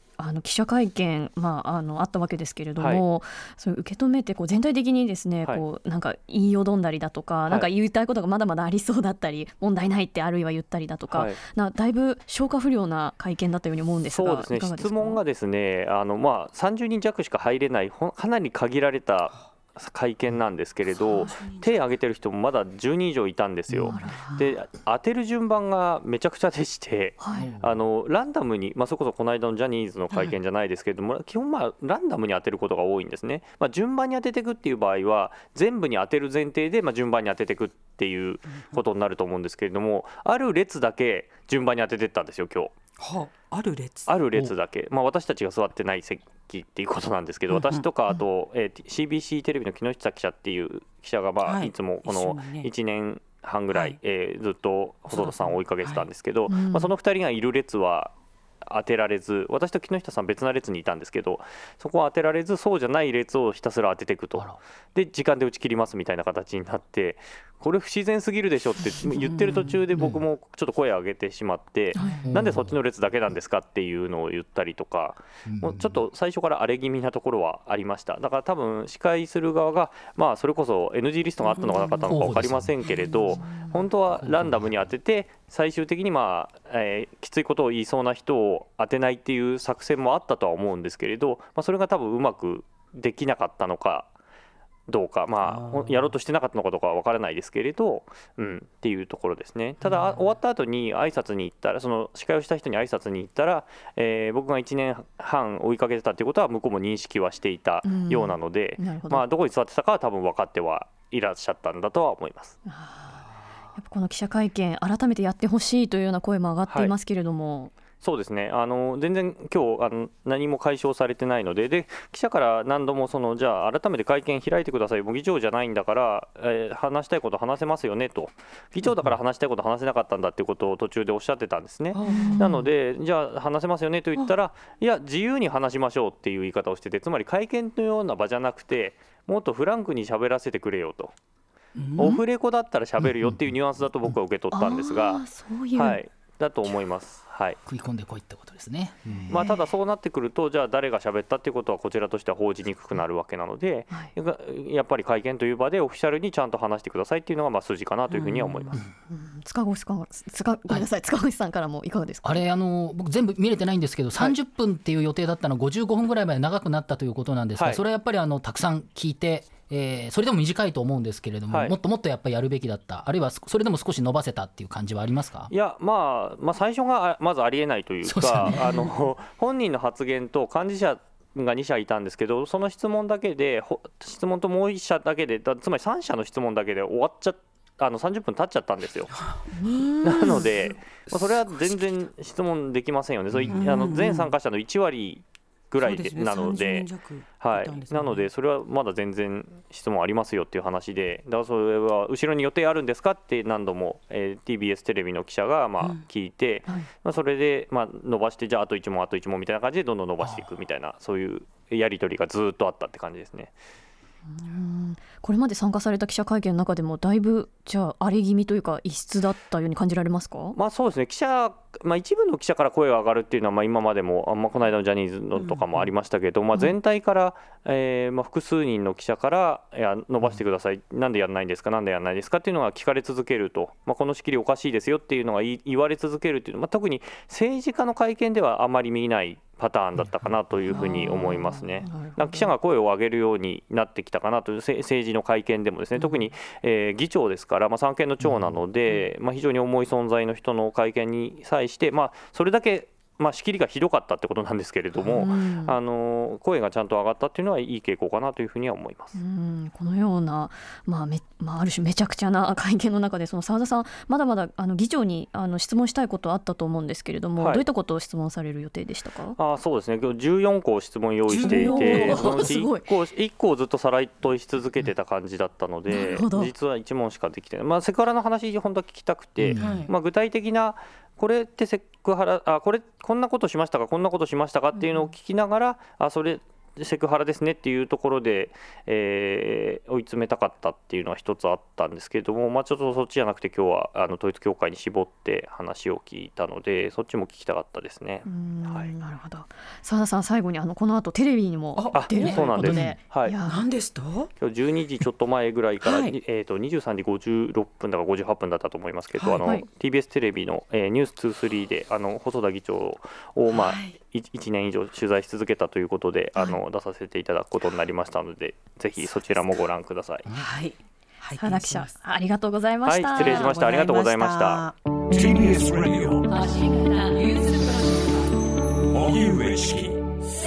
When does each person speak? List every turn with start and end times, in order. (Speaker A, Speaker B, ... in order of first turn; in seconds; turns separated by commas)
Speaker A: 0.2-15.2, Speaker B: 2.8-3.0, Speaker B: 11.1-11.4, Speaker B: 14.1-42.8, Speaker C: 21.0-21.7, Speaker A: 23.9-24.4, Speaker A: 27.2-27.5, Speaker D: 27.4-27.7, Speaker C: 38.5-38.8, Speaker C: 43.0-44.5, Speaker B: 44.1-94.1, Speaker C: 47.5-47.9, Speaker C: 51.4-52.7, Speaker C: 55.1-56.1, Speaker A: 56.5-56.9, Speaker D: 69.9-70.2, Speaker D: 72.2-72.7, Speaker D: 75.5-76.0, Speaker C: 81.6-81.9, Speaker D: 82.1-83.5, Speaker C: 82.9-83.4, Speaker D: 84.1-84.9, Speaker B: 94.9-112.6, Speaker C: 95.4-96.1, Speaker C: 99.8-100.2, Speaker A: 107.8-109.2, Speaker A: 112.7-117.7, Speaker B: 116.7-116.9, Speaker B: 118.0-141.1, Speaker C: 131.9-132.7, Speaker A: 132.1-132.6, Speaker C: 141.8-142.2, Speaker B: 142.0-147.6, Speaker D: 143.2-143.5, Speaker A: 144.5-146.0, Speaker D: 147.7-149.4, Speaker A: 149.2-149.5, Speaker B: 149.3-158.8, Speaker C: 158.1-158.8, Speaker A: 159.1-162.4, Speaker D: 162.2-175.5, Speaker B: 167.6-167.8, Speaker B: 171.5-171.8, Speaker B: 175.5-189.2, Speaker D: 178.0-178.9, Speaker C: 189.1-191.4, Speaker A: 189.6-190.4, Speaker B: 190.0-213.5, Speaker D: 193.3-193.6, Speaker C: 193.5-194.3, Speaker C: 195.8-198.3, Speaker A: 214.3-220.6, Speaker B: 220.6-259.2, Speaker C: 225.4-225.9, Speaker A: 240.7-242.5, Speaker D: 248.2-248.6, Speaker A: 255.0-255.8, Speaker A: 259.1-269.4, Speaker B: 267.4-267.6, Speaker B: 269.4-298.9, Speaker C: 271.3-272.6, Speaker A: 271.4-272.9, Speaker A: 275.9-276.5, Speaker D: 279.4-279.8, Speaker C: 279.6-279.9, Speaker A: 284.8-285.1, Speaker A: 298.2-303.6, Speaker C: 301.8-304.3, Speaker B: 301.9-303.4, Speaker B: 304.4-320.3, Speaker C: 305.8-306.2, Speaker C: 309.2-309.6, Speaker C: 313.5-314.0, Speaker C: 320.3-321.9, Speaker A: 321.4-323.5, Speaker B: 322.9-324.6, Speaker C: 323.1-324.8, Speaker E: 325.1-326.3, Speaker C: 326.4-328.2, Speaker E: 328.9-330.3